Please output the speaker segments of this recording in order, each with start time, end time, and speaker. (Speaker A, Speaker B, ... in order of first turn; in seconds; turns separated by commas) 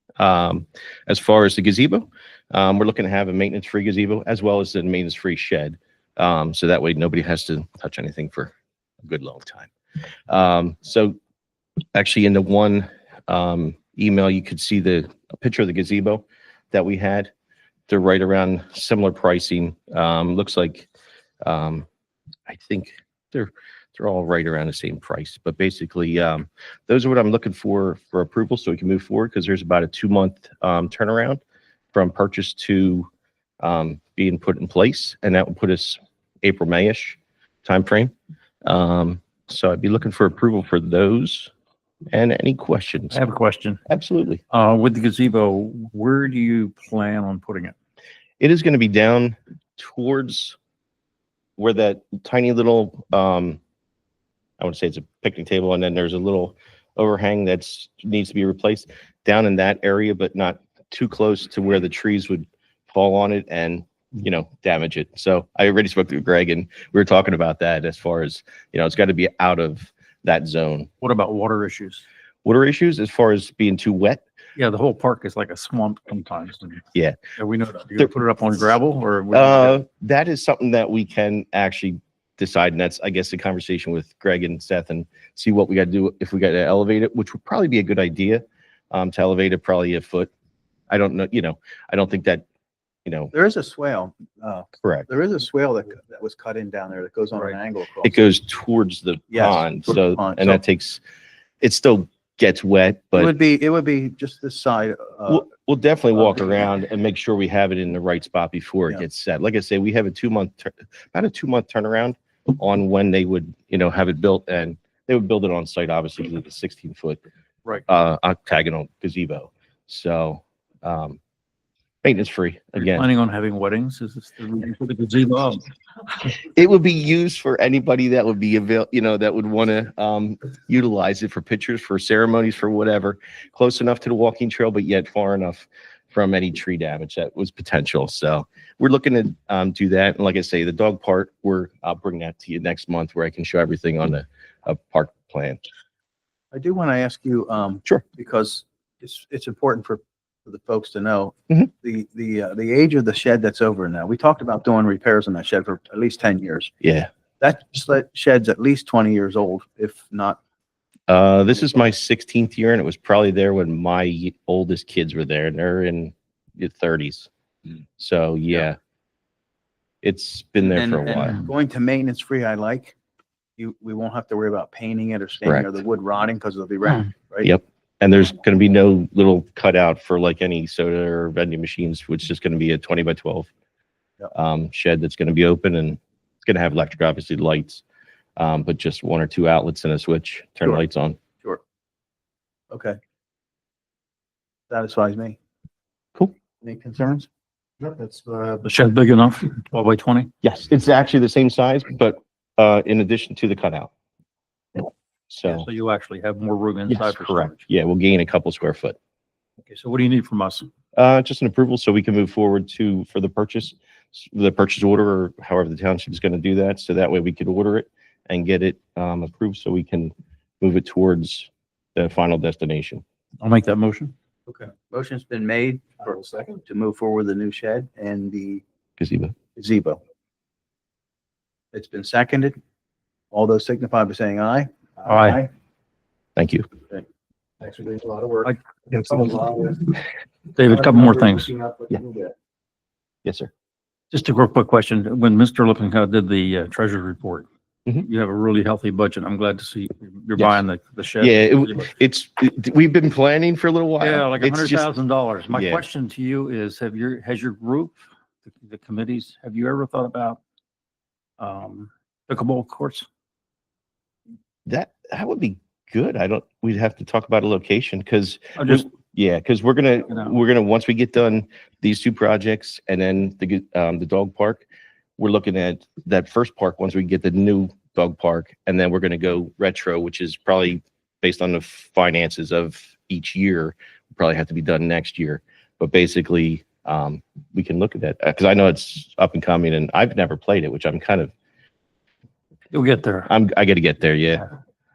Speaker A: 0.2-9.7, Speaker A: 10.3-11.2, Speaker A: 11.9-17.3, Speaker A: 17.9-20.9, Speaker A: 21.4-21.9, Speaker A: 22.5-31.4, Speaker A: 31.9-33.1, Speaker A: 33.6-38.1, Speaker A: 38.6-41.5, Speaker A: 42.1-43.2, Speaker B: 43.1-43.8, Speaker A: 43.9-44.4, Speaker B: 44.5-47.7, Speaker A: 48.4-50.5, Speaker A: 51.6-53.6, Speaker A: 54.6-70.9, Speaker B: 71.0-72.0, Speaker A: 72.4-74.2, Speaker B: 74.5-76.8, Speaker B: 77.4-79.8, Speaker A: 79.3-90.3, Speaker A: 90.9-92.4, Speaker A: 93.0-93.3, Speaker C: 93.3-98.2, Speaker A: 94.8-95.1, Speaker A: 98.0-101.0, Speaker C: 99.3-100.6, Speaker A: 101.6-103.3, Speaker C: 103.1-105.4, Speaker A: 105.3-117.2, Speaker A: 117.8-121.2, Speaker A: 122.0-123.0, Speaker B: 122.8-125.7, Speaker A: 126.4-145.6, Speaker C: 146.5-156.7, Speaker A: 156.8-157.1, Speaker C: 157.4-160.4, Speaker A: 161.1-167.3, Speaker A: 168.0-168.8, Speaker A: 170.0-171.4, Speaker C: 170.7-172.9, Speaker C: 173.6-177.5, Speaker A: 177.4-183.5, Speaker A: 184.3-187.8, Speaker A: 188.4-191.2, Speaker C: 192.7-193.0, Speaker C: 194.7-195.4, Speaker C: 196.6-197.3, Speaker D: 198.0-198.6, Speaker B: 198.6-200.3, Speaker A: 200.4-203.9, Speaker A: 205.3-205.7, Speaker B: 205.4-207.7, Speaker A: 206.9-208.9, Speaker B: 209.7-210.7, Speaker A: 210.9-223.0, Speaker B: 223.4-224.1, Speaker C: 224.4-228.6, Speaker A: 229.0-229.3, Speaker C: 229.6-230.0, Speaker C: 231.7-232.6, Speaker C: 233.3-235.5, Speaker B: 235.1-235.4, Speaker A: 236.4-236.7, Speaker D: 237.6-238.4, Speaker B: 238.4-239.9, Speaker D: 239.2-239.8, Speaker B: 240.5-241.5, Speaker D: 241.6-242.3, Speaker A: 243.2-243.5, Speaker B: 244.1-247.4, Speaker B: 248.0-251.9, Speaker A: 250.4-250.6, Speaker A: 251.2-254.9, Speaker B: 254.0-260.4, Speaker A: 255.5-255.8, Speaker B: 261.4-263.1, Speaker A: 264.6-274.6, Speaker B: 268.6-268.9, Speaker A: 275.2-291.3, Speaker B: 292.7-293.3, Speaker A: 293.3-294.4